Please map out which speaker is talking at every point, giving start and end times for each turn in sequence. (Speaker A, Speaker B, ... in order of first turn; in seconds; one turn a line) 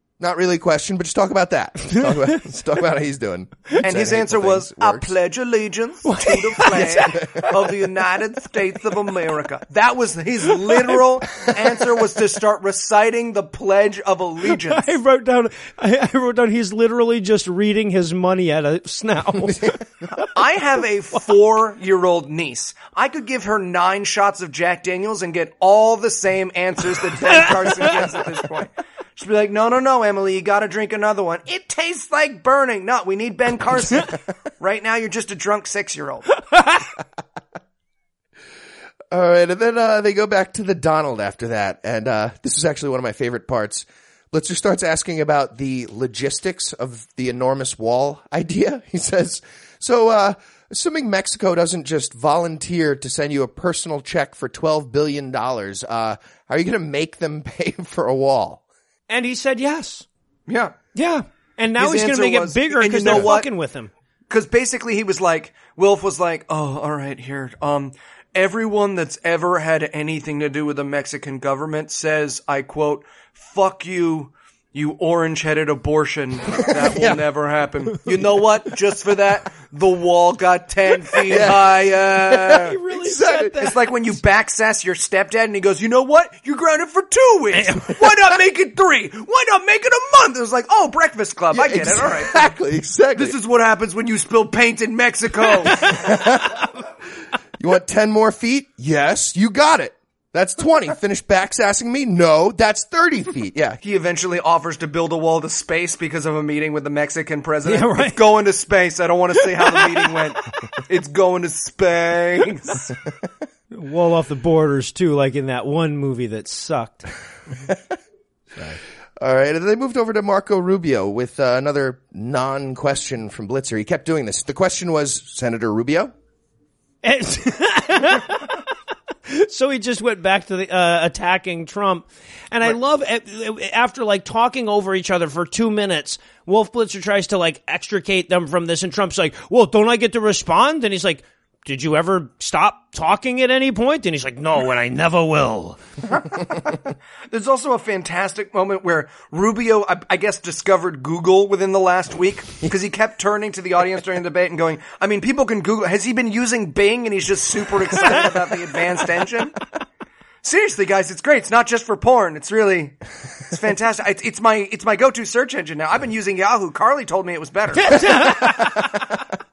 Speaker A: 0.2-5.1
Speaker B: 2.0-2.3
Speaker C: 3.8-15.0
Speaker B: 6.0-7.8
Speaker B: 14.6-20.2
Speaker C: 20.2-36.3
Speaker B: 36.5-36.8
Speaker A: 39.1-58.6
Speaker B: 59.1-60.1
Speaker C: 60.5-60.8
Speaker B: 61.0-63.9
Speaker C: 61.8-63.5
Speaker C: 64.3-82.8
Speaker A: 76.6-77.2
Speaker A: 81.3-83.6
Speaker B: 82.5-83.8
Speaker C: 83.6-92.5
Speaker B: 87.5-88.2
Speaker A: 91.5-93.3
Speaker C: 93.2-96.0
Speaker B: 95.7-96.1
Speaker A: 96.0-96.6
Speaker A: 97.6-103.8
Speaker C: 103.8-112.9
Speaker B: 107.7-108.2
Speaker B: 113.7-117.0
Speaker A: 119.2-126.1
Speaker B: 127.0-128.6
Speaker B: 129.3-145.8
Speaker C: 147.3-159.6
Speaker C: 160.4-168.2
Speaker B: 167.8-168.8
Speaker A: 168.0-169.0